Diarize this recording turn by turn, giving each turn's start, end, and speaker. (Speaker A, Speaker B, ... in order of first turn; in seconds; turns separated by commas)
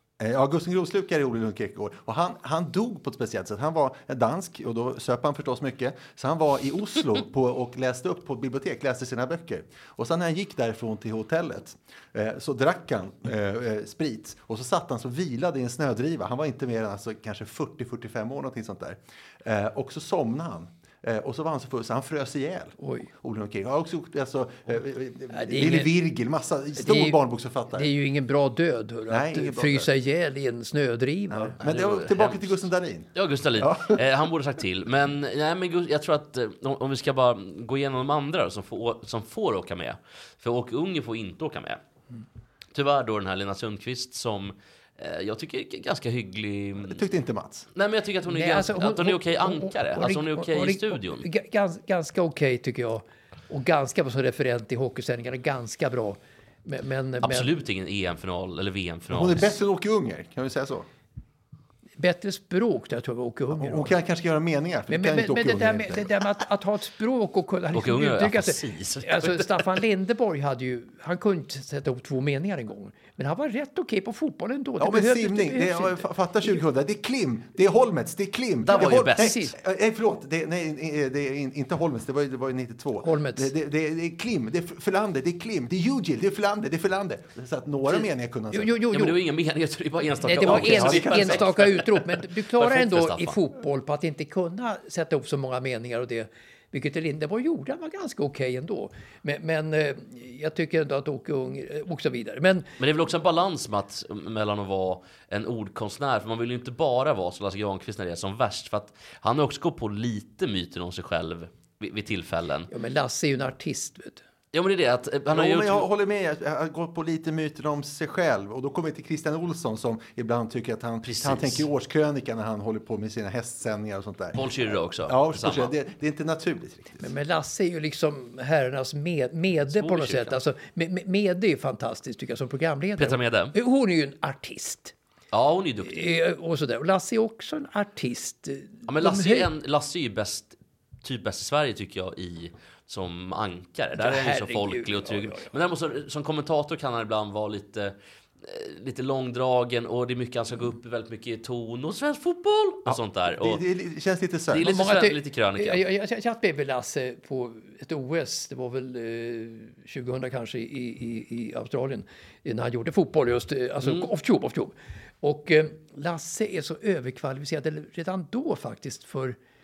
Speaker A: 0.2-27.9, Speaker B: 22.8-23.1, Speaker B: 25.3-25.9, Speaker B: 26.8-27.2, Speaker B: 27.7-31.6, Speaker A: 29.1-29.9, Speaker A: 31.3-34.0, Speaker C: 31.6-32.6, Speaker C: 33.1-41.8, Speaker C: 42.7-47.0, Speaker A: 46.8-47.7, Speaker C: 47.7-51.2, Speaker B: 48.3-57.5, Speaker C: 57.2-59.6, Speaker A: 59.1-60.9, Speaker B: 62.0-64.0, Speaker A: 63.5-66.1, Speaker B: 64.9-76.6, Speaker C: 67.7-69.8, Speaker A: 74.8-88.8, Speaker C: 78.6-79.4, Speaker B: 79.1-79.5, Speaker B: 83.0-83.5, Speaker B: 88.5-89.2, Speaker C: 88.9-93.4, Speaker B: 90.2-102.7, Speaker A: 90.4-91.5, Speaker C: 102.8-112.7, Speaker B: 112.7-114.2, Speaker C: 114.5-115.9, Speaker A: 115.3-127.1, Speaker C: 121.0-121.7, Speaker C: 124.3-125.7, Speaker B: 127.0-134.9, Speaker C: 129.7-130.4, Speaker C: 133.0-133.5, Speaker C: 135.3-136.0, Speaker B: 135.8-139.5, Speaker C: 138.9-153.6, Speaker B: 144.0-145.5, Speaker A: 152.8-154.7, Speaker C: 154.5-155.8, Speaker B: 154.6-169.3, Speaker C: 163.8-164.1